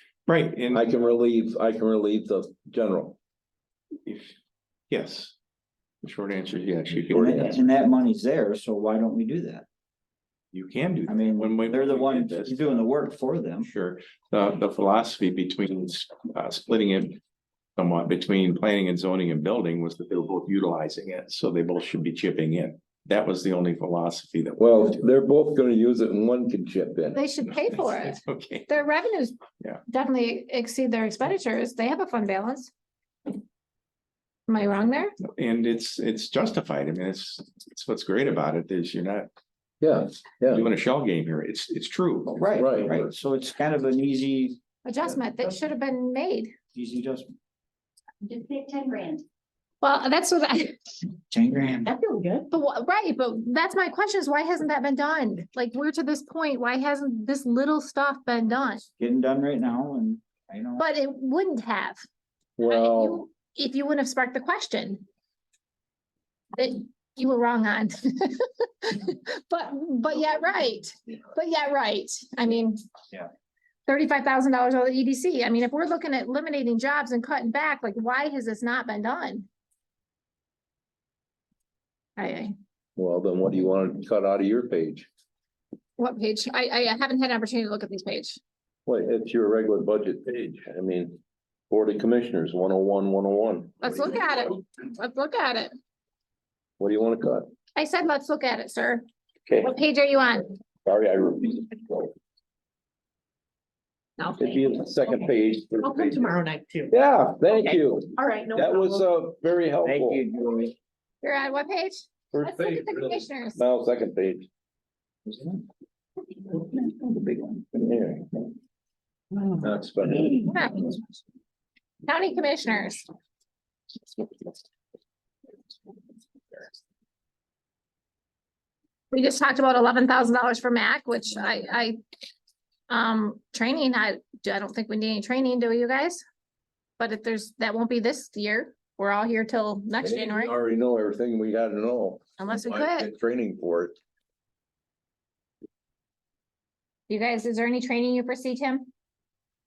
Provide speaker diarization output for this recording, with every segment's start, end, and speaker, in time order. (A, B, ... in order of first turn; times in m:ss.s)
0:00.3-0:00.9 A
0:00.7-0:03.2 B
0:04.1-0:04.4 A
0:04.9-0:05.4 A
0:06.0-0:07.6 A
0:07.1-0:07.6 B
0:07.1-0:09.6 C
0:10.5-0:12.9 A
0:11.1-0:13.7 C
0:13.6-0:17.2 A
0:17.8-0:25.0 A
0:24.6-0:27.2 B
0:27.1-0:32.7 D
0:27.4-0:28.7 A
0:34.5-0:35.2 D
0:35.2-0:39.3 A
0:39.8-0:40.7 B
0:40.5-0:42.5 A
0:42.3-0:44.6 C
0:42.6-0:43.1 B
0:44.8-0:46.5 D
0:46.7-0:47.4 C
0:49.8-0:51.0 D
0:51.3-0:51.9 C
0:51.9-0:52.5 E
0:52.5-0:58.8 D
0:59.0-1:00.9 C
1:00.8-1:02.0 D
1:02.6-1:03.2 B
1:02.6-1:05.0 D
1:06.6-1:12.8 D
1:13.9-1:19.5 D
1:22.2-1:22.6 D
1:23.0-1:25.1 B
1:26.0-1:28.4 D
1:28.9-1:34.2 B
1:33.8-1:35.7 D
1:36.8-1:37.5 B
1:37.8-1:39.1 D
1:39.6-1:40.6 D
1:40.8-1:42.1 B
1:44.2-1:44.8 D
1:44.4-1:46.3 B
1:45.8-1:46.9 E
1:46.9-1:50.2 B
1:47.5-1:49.0 E
1:49.8-1:50.8 C
1:51.2-1:53.6 D
1:52.3-1:54.5 B
1:55.3-1:55.6 C
1:56.5-1:57.7 C
1:57.7-1:58.5 B
1:59.5-2:00.5 B
2:00.4-2:00.9 D
2:02.0-2:03.1 D
2:09.1-2:12.0 D
2:12.9-2:16.2 D
2:17.0-2:20.5 D
2:20.0-2:24.0 B
2:22.4-2:23.1 D
2:27.1-2:28.9 D